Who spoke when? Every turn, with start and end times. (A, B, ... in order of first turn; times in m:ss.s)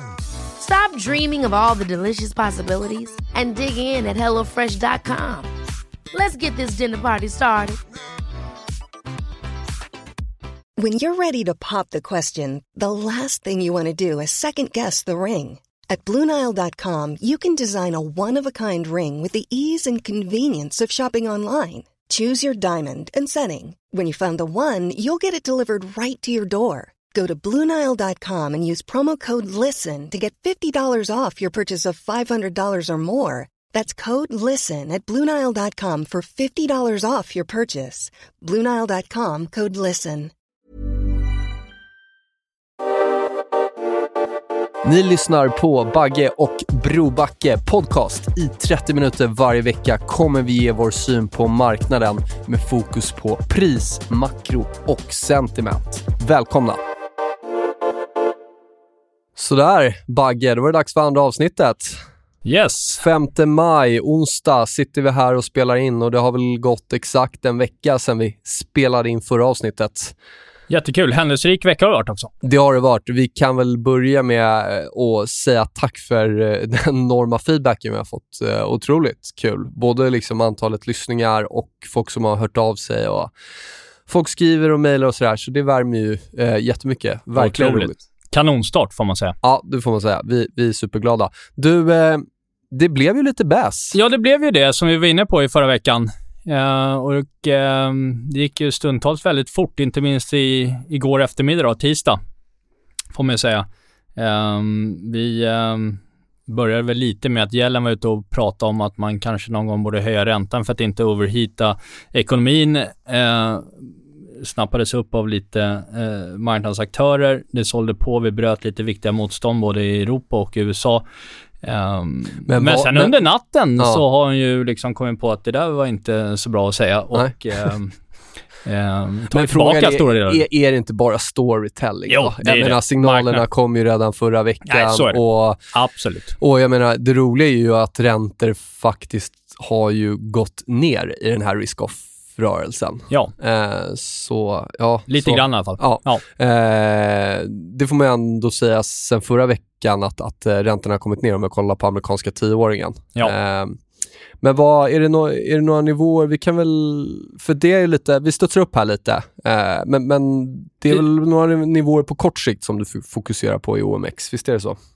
0:00.6-0:05.5 A
0:06.1-0:07.8 A
0:10.8-0:40.3 B
0:44.8-0:56.8 C
0:59.3-1:02.0 C
1:02.4-1:03.0 D
1:03.0-1:10.1 C
1:10.7-1:12.3 D
1:12.4-1:23.3 C
1:24.1-1:28.0 C
1:27.4-1:29.3 D
1:29.4-1:34.0 C
1:33.9-1:42.2 D
1:43.1-1:53.9 D
1:54.4-2:01.0 D
2:01.6-2:08.0 D
2:02.4-2:03.2 C
2:08.6-2:10.4 D
2:09.3-2:15.6 C
2:12.1-2:13.4 D
2:14.6-2:15.2 D
2:15.7-2:16.4 D
2:16.4-2:33.8 C
2:25.1-2:26.2 D
2:34.4-2:44.8 C